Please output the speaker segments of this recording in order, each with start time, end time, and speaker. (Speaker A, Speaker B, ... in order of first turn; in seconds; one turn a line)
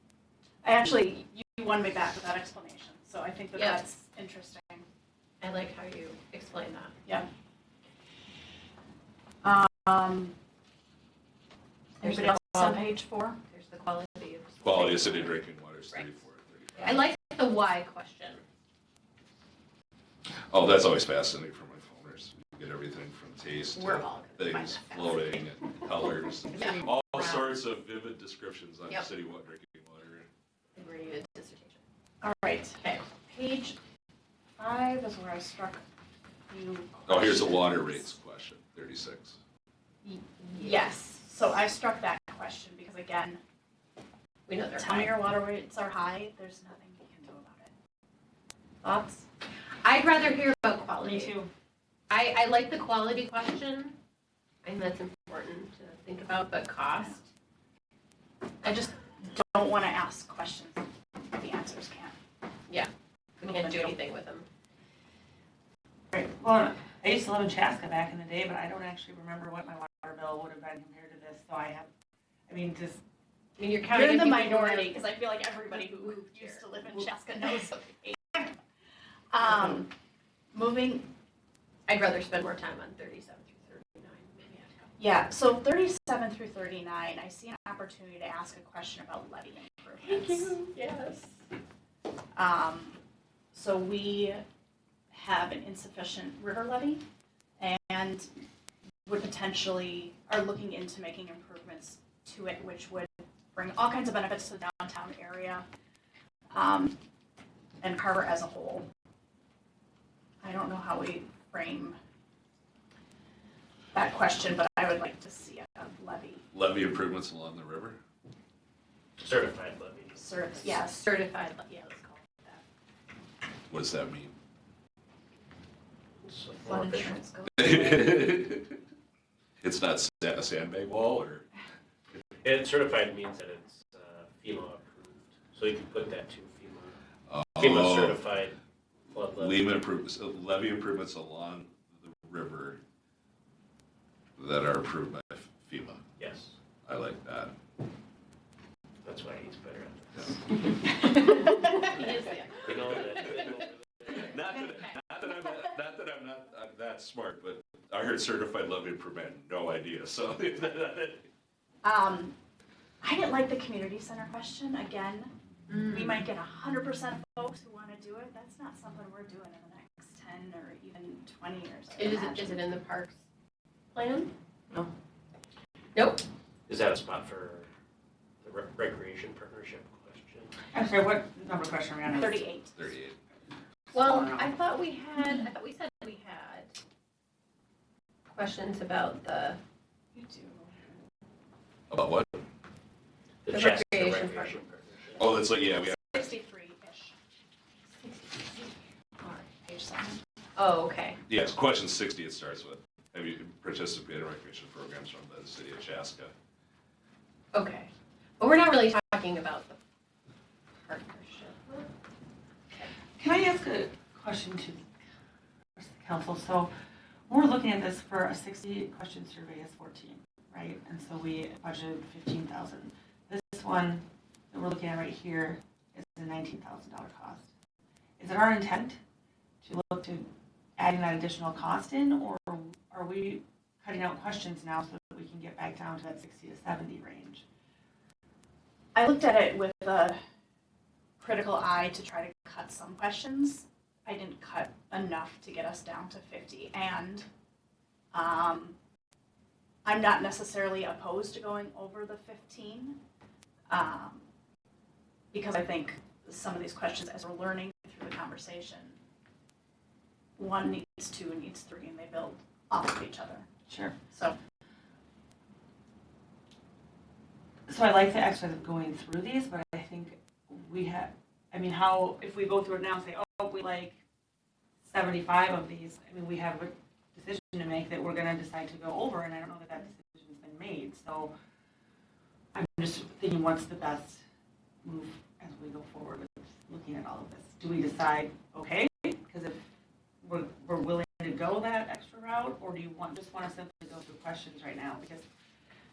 Speaker A: 0.6-4.8
Speaker B: 3.5-3.8
Speaker B: 5.4-6.9
Speaker A: 9.4-10.3
Speaker A: 12.0-13.4
Speaker B: 12.0-12.9
Speaker B: 13.5-16.2
Speaker C: 14.6-17.0
Speaker B: 16.8-18.4
Speaker C: 20.5-30.3
Speaker B: 23.7-25.5
Speaker B: 26.5-26.9
Speaker B: 30.8-31.8
Speaker A: 32.2-33.8
Speaker A: 34.6-35.8
Speaker A: 36.5-38.1
Speaker C: 37.1-39.4
Speaker A: 40.0-43.4
Speaker B: 40.5-40.9
Speaker B: 44.5-45.2
Speaker A: 44.8-47.7
Speaker B: 48.8-49.2
Speaker B: 49.8-51.4
Speaker D: 51.0-51.5
Speaker B: 52.1-54.0
Speaker B: 54.6-57.2
Speaker A: 58.6-62.1
Speaker A: 63.4-64.0
Speaker B: 63.4-64.5
Speaker D: 66.1-71.9
Speaker D: 72.5-73.0
Speaker B: 73.6-77.0
Speaker A: 73.9-78.6
Speaker A: 79.3-79.9
Speaker A: 80.5-81.1
Speaker B: 81.9-84.8
Speaker A: 85.0-90.6
Speaker B: 90.0-91.4
Speaker A: 92.3-93.0
Speaker A: 93.5-94.4
Speaker A: 95.1-97.0
Speaker A: 97.6-98.3
Speaker A: 99.1-105.7
Speaker A: 106.5-107.0
Speaker A: 107.8-108.9
Speaker A: 110.4-112.0
Speaker A: 113.9-116.5
Speaker C: 116.5-118.0
Speaker E: 119.2-120.3
Speaker A: 120.2-121.1
Speaker B: 120.6-122.6
Speaker C: 123.7-124.3
Speaker E: 126.2-127.2
Speaker A: 126.6-128.1
Speaker C: 127.6-128.8
Speaker C: 129.6-131.5
Speaker E: 132.4-137.0
Speaker C: 137.3-138.2
Speaker E: 137.6-138.6
Speaker E: 139.1-139.7
Speaker C: 139.4-142.8
Speaker C: 144.4-146.0
Speaker E: 146.2-146.6
Speaker C: 146.8-147.6
Speaker E: 149.0-150.4
Speaker B: 151.2-152.7
Speaker E: 152.6-154.3
Speaker C: 152.7-153.1
Speaker C: 154.1-161.3
Speaker A: 161.8-162.3
Speaker A: 163.0-172.7
Speaker B: 165.7-166.2
Speaker B: 171.9-173.2
Speaker B: 173.9-174.3
Speaker B: 175.9-176.2
Speaker E: 176.7-177.7
Speaker E: 178.4-180.5
Speaker D: 180.7-182.5
Speaker A: 182.1-182.7
Speaker C: 182.8-183.2
Speaker D: 183.9-184.5
Speaker B: 183.9-186.8
Speaker B: 188.3-189.6
Speaker A: 190.2-190.9
Speaker C: 191.9-192.4
Speaker E: 193.4-195.2
Speaker B: 193.5-194.6
Speaker C: 195.2-196.3
Speaker A: 195.5-197.2
Speaker B: 198.0-198.7
Speaker A: 199.2-200.2
Speaker B: 200.6-201.2
Speaker C: 201.3-206.3
Speaker B: 207.5-209.8
Speaker B: 210.8-211.9
Speaker D: 213.2-214.8
Speaker D: 215.8-216.7
Speaker D: 217.3-227.5
Speaker D: 228.2-229.0
Speaker D: 229.6-230.3
Speaker D: 230.8-237.4
Speaker A: 238.9-240.2
Speaker A: 241.2-247.3
Speaker A: 248.1-248.8
Speaker A: 249.8-253.0
Speaker A: 253.7-254.2
Speaker A: 255.3-259.0
Speaker A: 260.4-263.4
Speaker D: 263.7-264.0
Speaker A: 264.1-264.4
Speaker D: 267.7-274.0
Speaker D: 274.8-281.3
Speaker D: 282.5-284.2
Speaker D: 284.8-289.6
Speaker D: 290.2-295.2